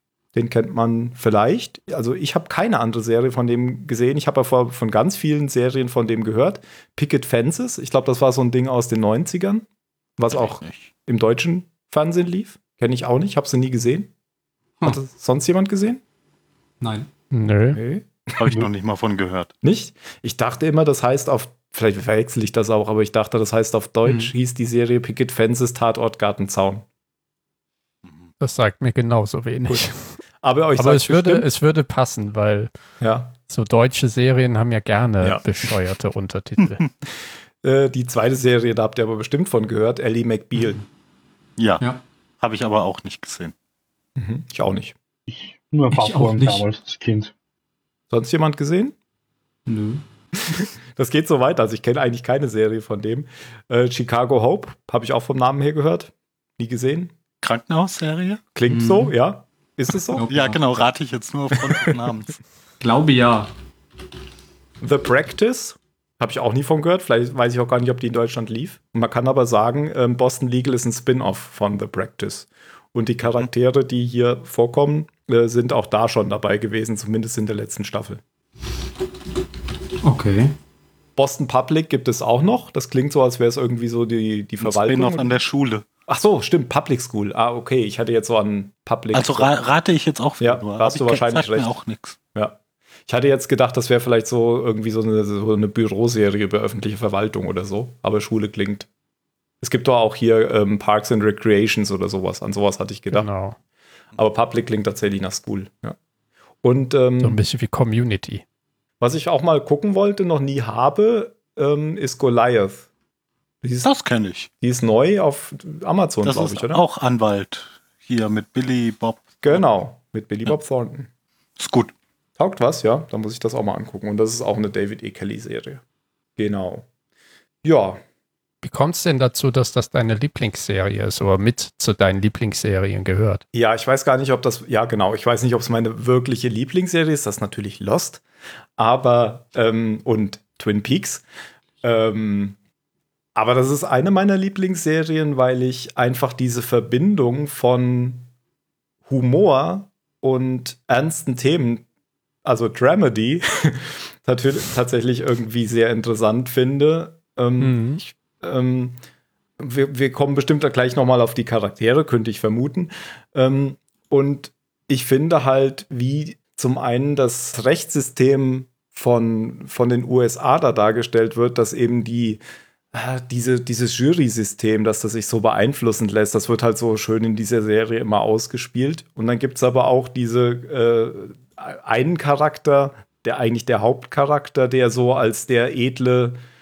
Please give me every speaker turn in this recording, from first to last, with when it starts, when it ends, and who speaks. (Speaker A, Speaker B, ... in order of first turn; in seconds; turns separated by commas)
Speaker A: 0.3-9.7, Speaker A: 10.2-14.1, Speaker B: 10.3-10.9, Speaker A: 14.8-16.0, Speaker C: 16.8-17.1, Speaker D: 17.3-17.8, Speaker A: 17.8-18.1, Speaker B: 18.4-19.5, Speaker A: 19.6-26.9, Speaker C: 24.1-24.3, Speaker D: 28.4-30.2, Speaker A: 30.4-31.5, Speaker D: 30.8-32.7, Speaker A: 33.0-33.3, Speaker D: 33.5-36.8, Speaker A: 37.6-40.8, Speaker B: 41.6-41.8, Speaker B: 42.4-43.5, Speaker A: 44.2-45.0, Speaker E: 45.3-47.3, Speaker C: 45.9-46.6, Speaker A: 48.1-49.0, Speaker C: 49.7-50.0, Speaker A: 50.5-57.1, Speaker B: 57.4-58.4, Speaker A: 58.5-60.3, Speaker C: 58.7-59.1, Speaker C: 60.2-60.6, Speaker B: 60.3-62.4, Speaker C: 62.8-63.5, Speaker A: 64.8-78.2, Speaker C: 80.0-80.5, Speaker A: 81.2-85.3, Speaker B: 84.6-85.9, Speaker A: 86.1-89.5, Speaker B: 89.1-92.2, Speaker A: 90.4-91.8, Speaker A: 92.3-98.9, Speaker A: 99.6-103.3, Speaker D: 103.1-103.6, Speaker A: 104.2-106.0, Speaker A: 106.6-107.4, Speaker D: 107.2-108.4, Speaker A: 109.0-112.9, Speaker A: 113.6-113.9, Speaker B: 113.8-114.5, Speaker A: 114.6-116.8, Speaker B: 116.2-119.6, Speaker A: 119.4-121.1, Speaker B: 121.6-121.9, Speaker A: 122.4-125.8, Speaker A: 126.4-126.9, Speaker A: 127.6-128.0, Speaker D: 128.6-133.4, Speaker A: 133.5-138.2, Speaker A: 138.8-141.2, Speaker A: 141.8-142.6, Speaker A: 143.3-148.3, Speaker A: 149.1-151.9, Speaker A: 152.4-159.0, Speaker D: 157.6-158.0, Speaker A: 159.6-172.4, Speaker A: 172.9-186.4